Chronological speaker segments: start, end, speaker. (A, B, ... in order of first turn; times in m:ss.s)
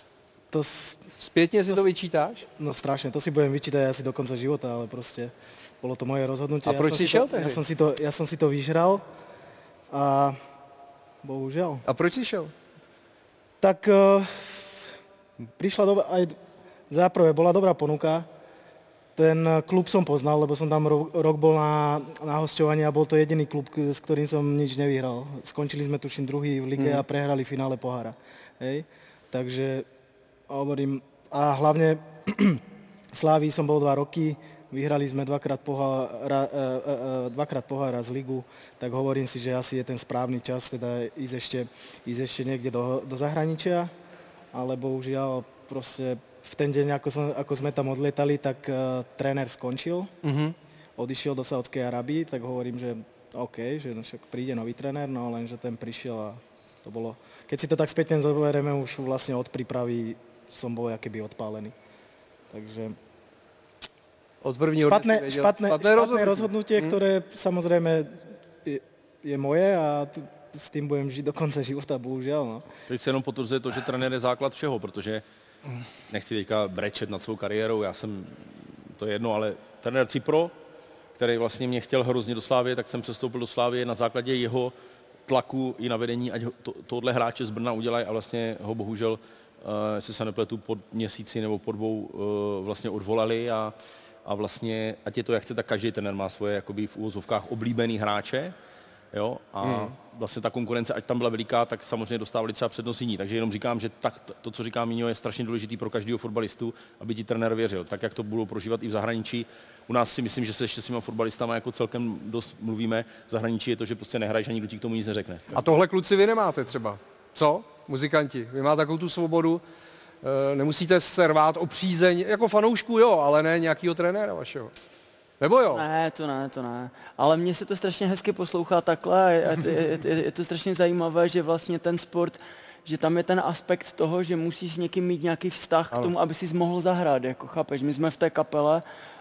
0:00.5-0:01.0 A
0:01.2-0:02.4 B
0:02.6-0:09.0 A
0:06.6-0:07.6 B
0:09.9-0:10.4 A
0:11.2-0:11.8 A
0:11.8-0:12.5 B
0:13.6-0:14.9 A
0:15.6-0:16.4 A
0:16.9-0:18.3 A
0:19.2-0:29.9 A
0:30.5-0:32.6 A
0:33.1-0:43.9 A
0:44.5-0:50.1 A
0:50.2-0:50.5 B
0:51.0-1:01.7 A
1:02.5-1:03.0 A
1:04.4-1:06.9 B
1:04.8-1:12.7 A
1:12.9-1:15.2 C
1:16.1-1:20.5 C
1:21.2-1:24.7 C
1:25.3-1:38.5 C
1:39.1-1:55.5 C
1:39.6-1:39.9 B
1:55.5-1:59.6 B
2:00.2-2:04.7 B
2:05.4-2:05.8 B
2:05.7-2:18.8 D